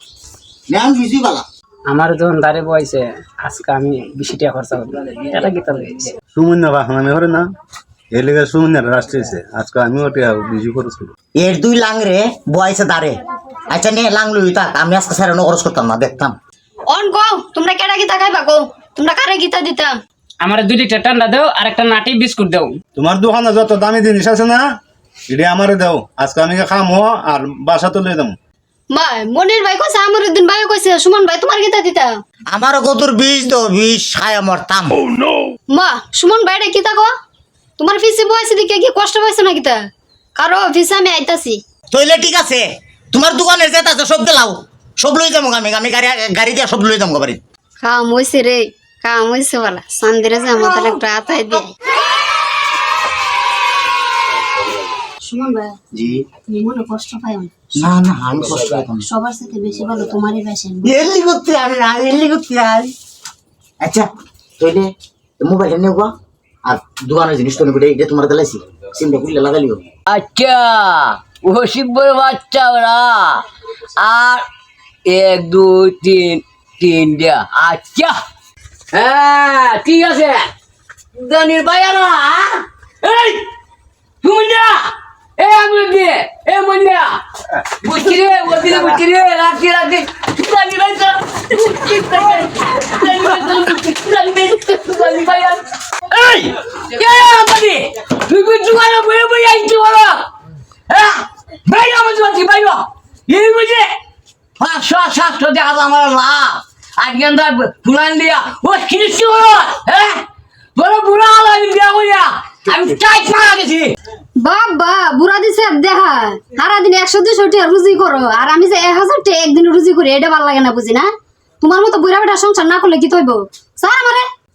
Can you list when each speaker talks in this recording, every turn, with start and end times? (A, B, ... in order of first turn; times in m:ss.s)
0:00.7-0:01.4 A
0:01.9-0:06.1 B
0:06.3-0:07.5 C
0:08.1-0:11.1 C
0:11.4-0:13.2 A
0:13.7-0:16.4 A
0:16.9-0:20.0 D
0:20.4-0:22.8 B
0:22.9-0:24.6 C
0:25.3-0:28.3 C
0:28.9-0:32.2 D
0:32.5-0:35.0 A
0:35.7-0:37.1 D
0:37.8-0:39.8 D
0:40.4-0:41.6 D
0:41.9-0:47.4 A
0:47.8-0:51.7 D
0:55.2-0:55.7 D
0:55.9-0:56.2 A
0:56.5-0:57.5 D
0:57.8-0:59.0 A
0:59.0-1:01.0 D
1:00.8-1:02.9 A
1:04.6-1:06.1 A
1:06.6-1:09.8 A
1:10.1-1:13.4 E
1:14.0-1:14.4 E
1:15.1-1:18.1 E
1:18.9-1:20.5 E
1:21.1-1:23.4 E
1:24.2-1:27.2 E
1:27.8-1:40.2 E
1:40.9-1:43.9 E
1:44.6-1:50.2 E
1:50.8-1:53.9 E
1:54.4-2:01.1 D
2:01.6-2:04.3 D